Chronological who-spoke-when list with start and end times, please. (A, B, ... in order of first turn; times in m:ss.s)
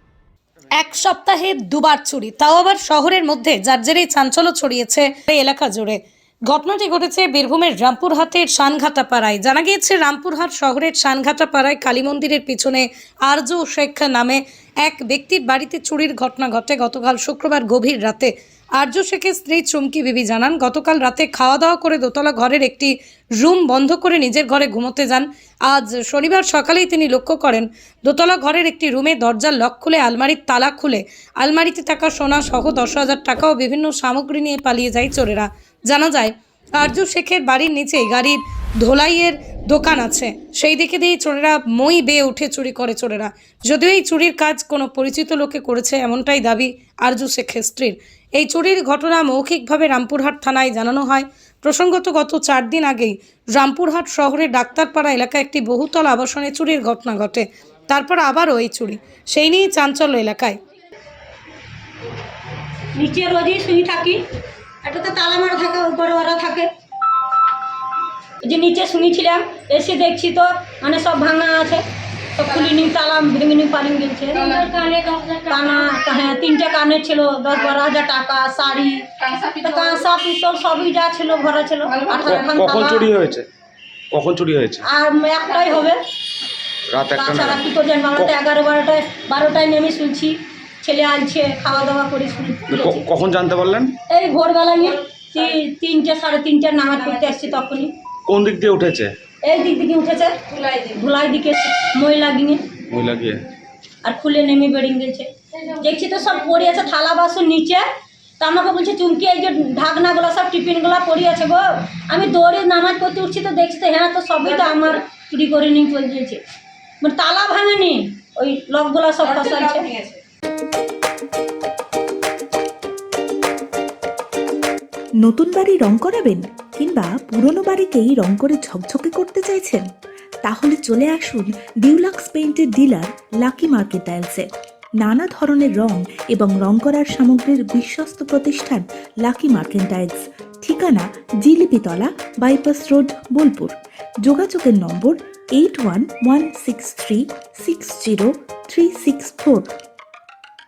0:00.8-1:00.6 A
1:03.0-1:04.2 B
1:04.8-1:06.7 B
1:08.4-1:11.8 B
1:12.4-1:19.0 B
1:19.6-1:23.1 B
1:22.2-1:23.5 C
1:24.1-1:24.8 C
1:24.9-1:26.0 B
1:26.9-1:28.4 C
1:27.2-1:33.0 B
1:32.7-1:34.0 C
1:34.1-1:37.9 B
1:38.3-1:39.1 C
1:39.4-1:42.7 B
1:42.9-1:43.4 C
1:44.0-1:47.8 B
1:48.4-1:56.4 B
1:57.0-1:59.9 B
2:05.2-2:09.9 D
2:10.4-2:14.5 D
2:15.0-2:23.7 D
2:24.2-2:29.7 D